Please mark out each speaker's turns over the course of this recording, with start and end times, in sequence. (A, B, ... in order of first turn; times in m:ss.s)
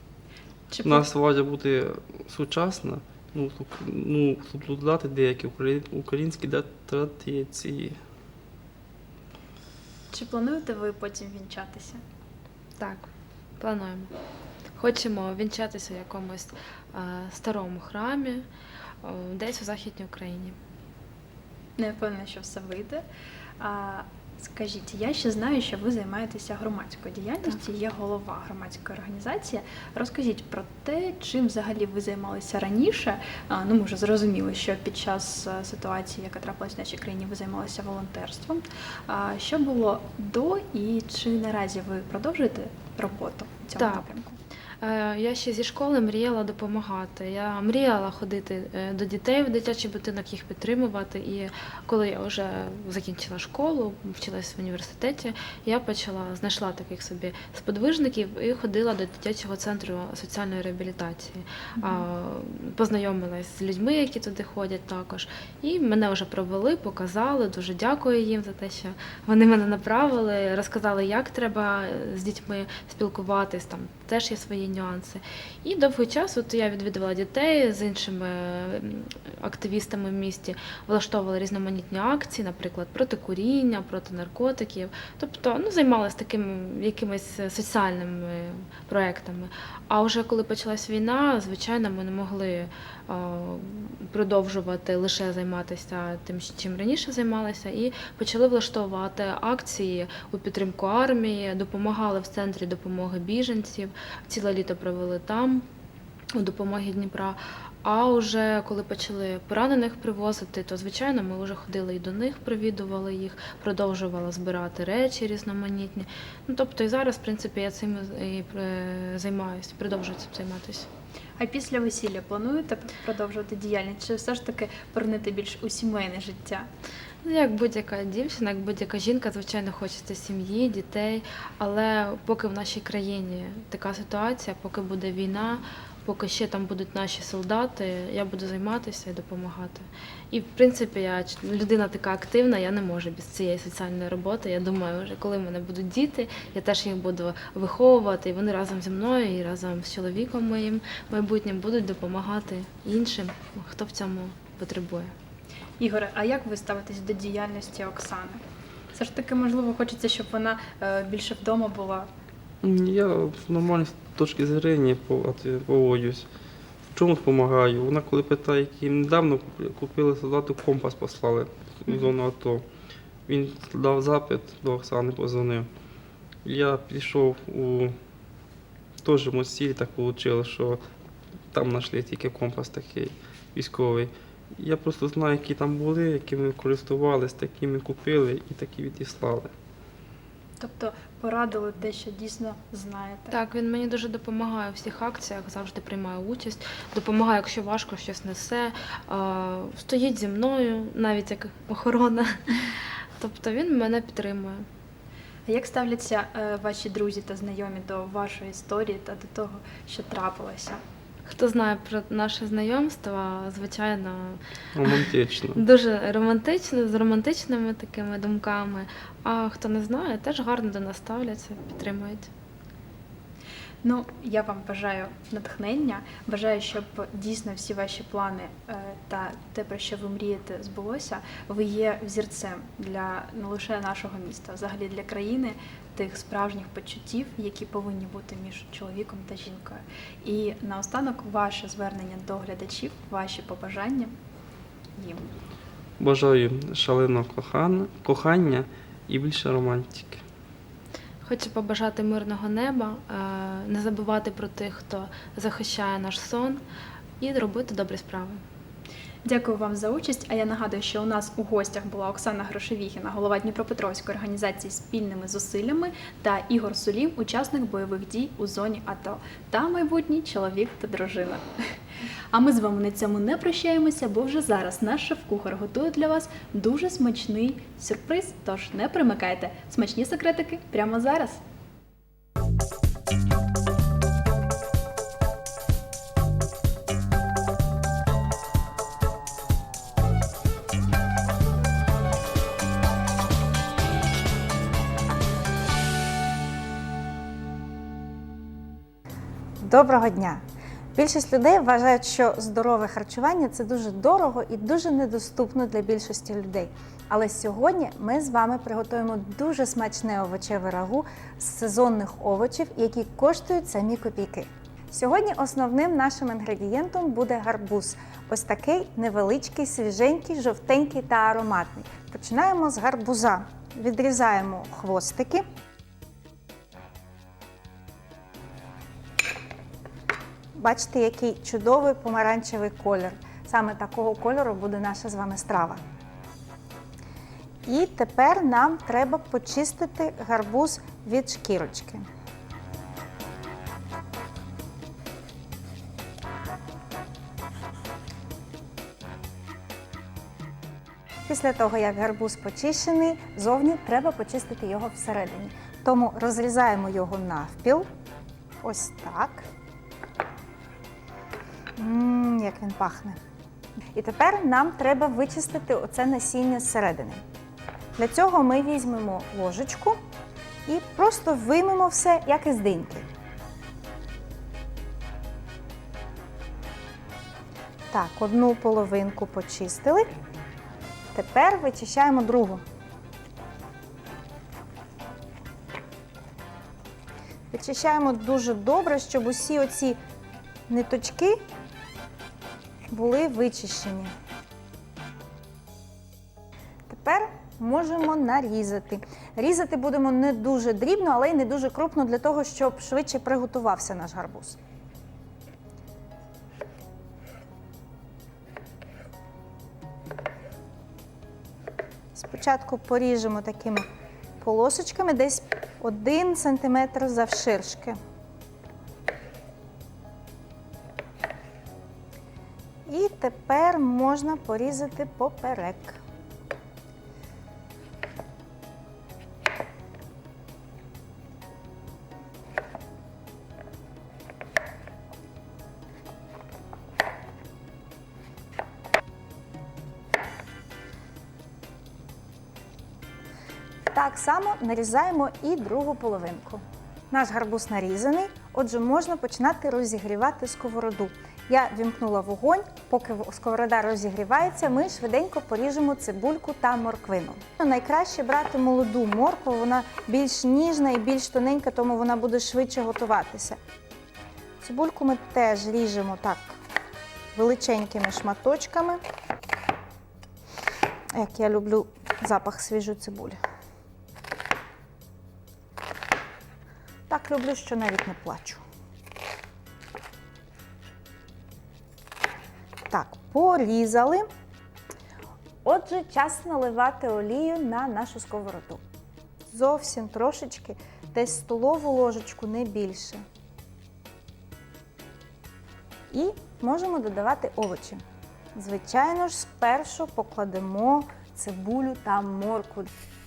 0:00.7-0:01.1 A
0:00.8-0:08.0 B
0:10.1-0:12.0 A
0:12.8-0:14.1 C
0:14.8-0:18.5 C
0:19.0-0:20.6 C
0:21.8-0:23.0 A
0:23.6-0:44.4 A
0:43.8-0:44.1 C
0:44.8-1:45.7 C
1:01.8-1:02.1 A
1:46.3-2:00.9 C
2:01.4-2:06.7 A
2:07.2-2:35.1 C
2:35.8-2:38.4 A
2:38.9-2:42.1 A
2:42.6-2:46.3 B
2:46.9-2:52.6 B
2:53.3-2:55.7 B
2:56.4-2:58.0 B
2:59.0-3:00.8 B
3:01.5-3:09.5 B
3:10.6-3:13.3 A
3:13.3-3:24.6 C
3:25.5-3:30.8 A
3:31.3-3:35.0 C
3:34.8-3:35.6 B
3:35.6-3:42.3 C
3:43.8-4:04.1 A
4:04.9-4:05.3 A
4:06.0-4:10.2 B
4:11.2-4:16.6 C
4:17.2-4:18.4 C
4:19.2-4:31.6 A
4:32.3-4:41.4 A
4:59.6-5:00.4 D
5:01.0-5:25.4 D
5:30.6-5:35.8 D
5:37.7-5:42.1 D
5:51.3-5:57.9 D
5:58.6-5:59.5 D
6:01.8-6:03.2 D
6:03.9-6:07.2 D
6:08.0-6:10.0 D
6:10.7-6:13.1 D
6:17.9-6:20.1 D
6:21.1-6:22.6 D
6:27.5-6:30.0 D
6:30.7-6:31.4 D
6:32.9-6:34.1 D
6:36.9-6:44.6 D
6:52.1-6:53.8 D
6:54.4-6:58.0 D
7:02.9-7:06.0 D
7:23.9-7:43.6 D
7:44.6-7:46.6 D
7:47.4-7:49.0 D
7:51.1-7:53.4 D
7:57.1-7:58.6 D
8:02.9-8:04.3 D
8:05.6-8:08.8 D
8:09.5-8:13.2 D
8:16.1-8:18.0 D
8:18.6-8:22.9 D